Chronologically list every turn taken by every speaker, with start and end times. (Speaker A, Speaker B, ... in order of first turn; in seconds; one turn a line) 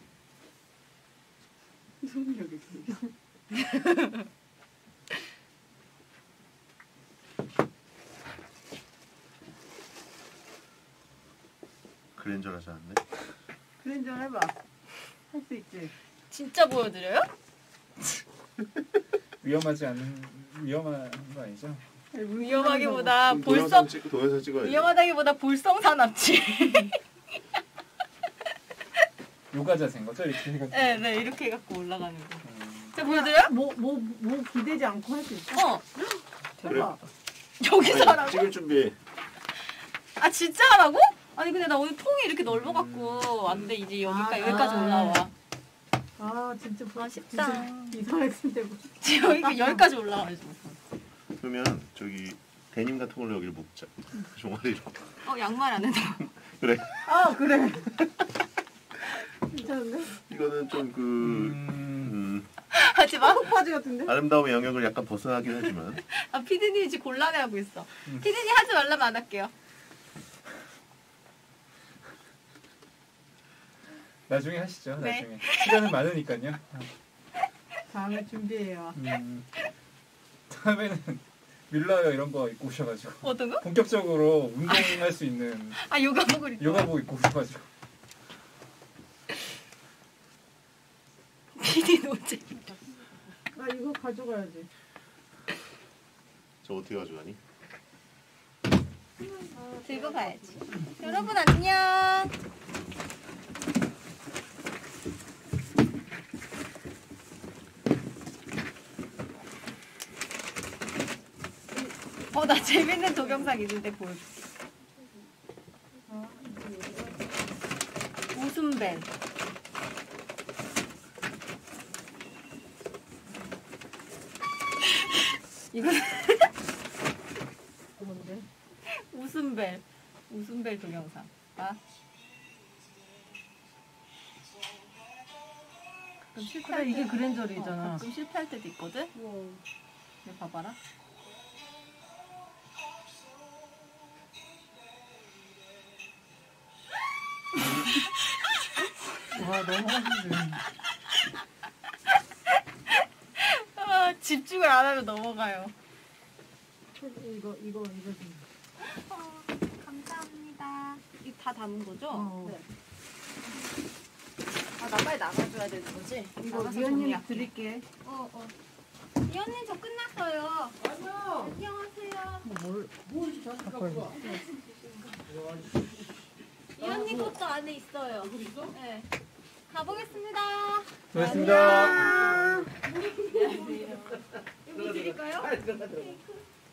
Speaker A: 2.0-3.1
Speaker B: 12.2-13.0
Speaker A: 13.8-14.6
Speaker A: 15.3-15.9
Speaker C: 16.3-17.3
Speaker D: 19.4-21.8
Speaker A: 22.1-23.2
Speaker C: 22.4-24.0
Speaker B: 23.2-24.9
Speaker C: 24.6-27.0
Speaker D: 29.5-31.0
Speaker C: 30.7-33.5
Speaker D: 32.4-32.9
Speaker A: 33.0-35.7
Speaker C: 35.5-36.2
Speaker A: 36.6-37.0
Speaker B: 36.6-37.0
Speaker C: 37.6-38.5
Speaker B: 37.8-39.0
Speaker C: 40.2-45.3
Speaker A: 44.0-45.3
Speaker A: 46.2-49.9
Speaker C: 47.0-48.0
Speaker C: 49.0-50.8
Speaker B: 51.4-55.0
Speaker C: 55.2-56.3
Speaker B: 56.5-57.1
Speaker A: 57.1-58.0
Speaker A: 59.4-60.1
Speaker B: 60.2-62.5
Speaker D: 61.2-62.1
Speaker C: 62.7-63.5
Speaker A: 63.2-64.1
Speaker B: 64.0-66.0
Speaker C: 66.0-69.5
Speaker D: 74.3-76.9
Speaker C: 75.0-75.9
Speaker A: 77.9-79.0
Speaker D: 78.9-79.5
Speaker D: 80.5-85.8
Speaker C: 83.2-83.7
Speaker C: 84.7-85.0
Speaker C: 85.8-86.9
Speaker D: 86.6-87.7
Speaker C: 91.5-92.7
Speaker A: 93.5-94.7
Speaker B: 96.6-97.4
Speaker A: 99.2-101.2
Speaker C: 99.8-102.3
Speaker C: 112.3-114.5
Speaker A: 116.1-117.3
Speaker C: 118.3-119.1
Speaker C: 124.9-126.5
Speaker A: 128.0-128.5
Speaker C: 128.8-131.8
Speaker A: 136.3-138.1
Speaker C: 136.3-139.1
Speaker A: 139.1-139.6
Speaker C: 140.2-140.8
Speaker A: 149.3-150.6
Speaker C: 152.9-155.7
Speaker A: 156.9-158.5
Speaker C: 158.8-162.6
Speaker A: 162.1-162.6
Speaker C: 164.8-167.5
Speaker A: 166.4-167.8
Speaker C: 168.0-168.5
Speaker C: 169.2-172.4
Speaker A: 170.9-171.4
Speaker A: 172.4-174.4
Speaker C: 174.1-175.2
Speaker C: 176.8-179.1
Speaker C: 179.7-186.4
Speaker D: 181.1-182.1
Speaker A: 181.2-182.7
Speaker A: 183.3-184.1